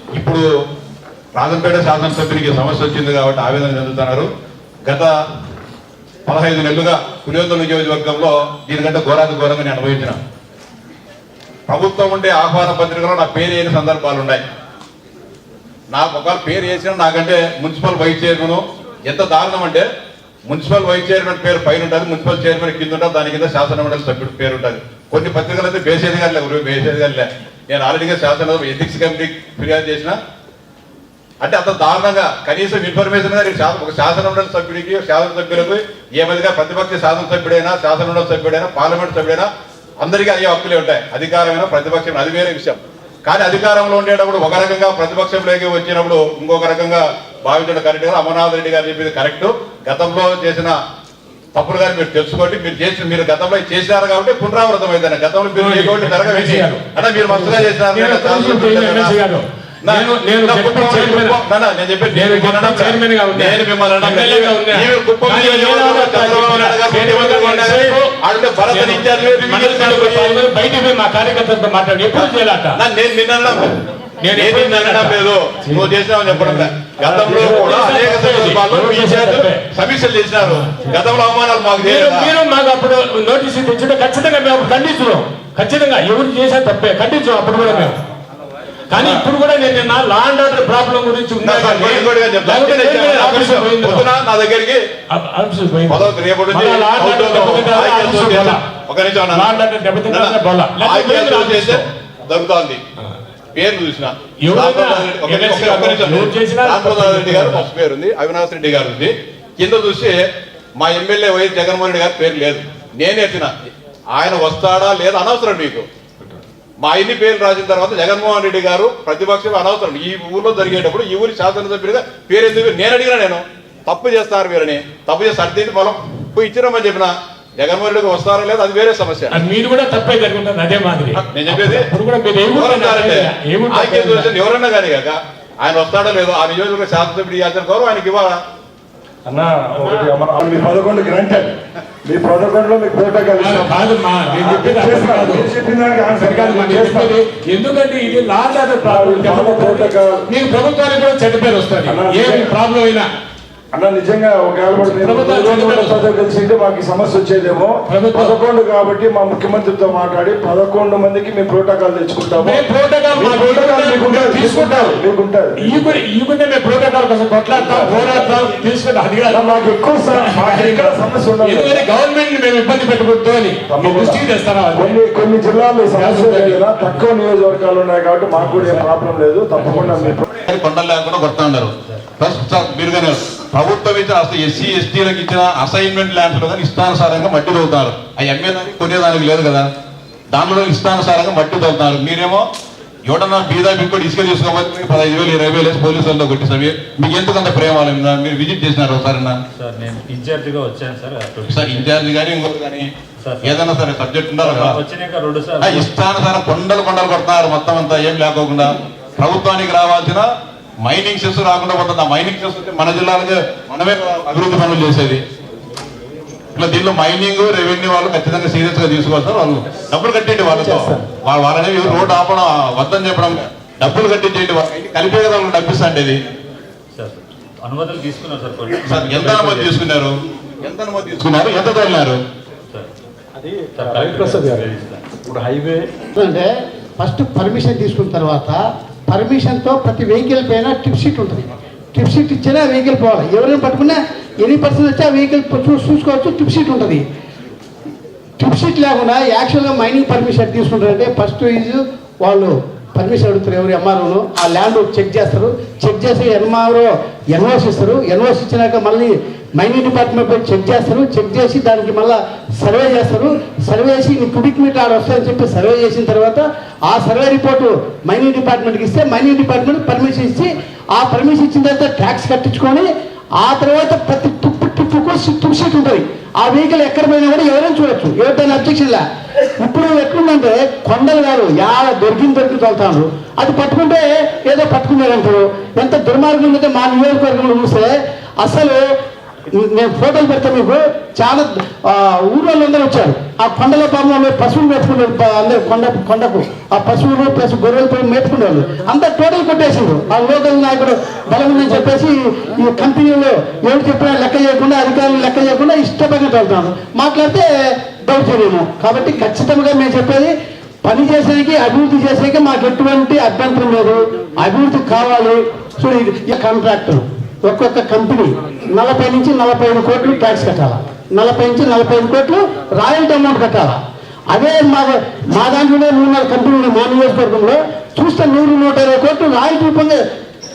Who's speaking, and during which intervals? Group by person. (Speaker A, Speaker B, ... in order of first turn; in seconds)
Speaker A: 0.1-0.4, 1.4-4.3, 4.8-5.1, 6.3-10.2, 11.7-14.4, 15.9-19.9, 20.5-30.2, 31.4-39.5, 40.0-50.8, 51.5-59.1, 59.8-70.5, 72.1-73.8, 74.3-82.3, 89.0-89.3, 91.4-94.8, 95.9-99.5, 100.1-102.8, 103.5-110.2, 110.8-115.9, 116.8-129.4, 131.2-131.9, 132.5-138.4, 180.4-189.7, 190.3-192.5, 193.1-199.4, 201.5-202.9, 203.4-204.8, 205.6-210.3, 210.8-215.2, 216.6-226.2, 228.8-232.2
Speaker B: 55.5-61.4, 62.1-72.8, 74.2-75.2, 76.4-79.7, 80.5-80.8, 81.8-88.0, 88.9-94.1, 95.1-98.6, 99.3-101.8, 104.4-107.7, 129.3-134.3, 143.4-145.5, 146.1-153.1, 154.8-156.1, 157.9-158.4, 162.3-165.0, 165.6-175.0, 175.9-177.1, 178.5-178.8, 179.6-180.2
Speaker C: 139.2-147.2, 148.8-150.3, 151.9-152.5, 153.7-165.8, 167.5-168.5, 169.3-171.8, 173.7-180.2
Speaker D: 199.6-201.9, 203.2-203.6, 204.4-205.9, 226.9-229.7, 233.7-235.0
Speaker E: 220.5-221.1, 233.4-235.9
Speaker F: 236.2-247.0, 248.4-272.9, 273.4-279.0, 279.6-288.8, 289.5-310.3, 310.8-323.8, 324.3-330.0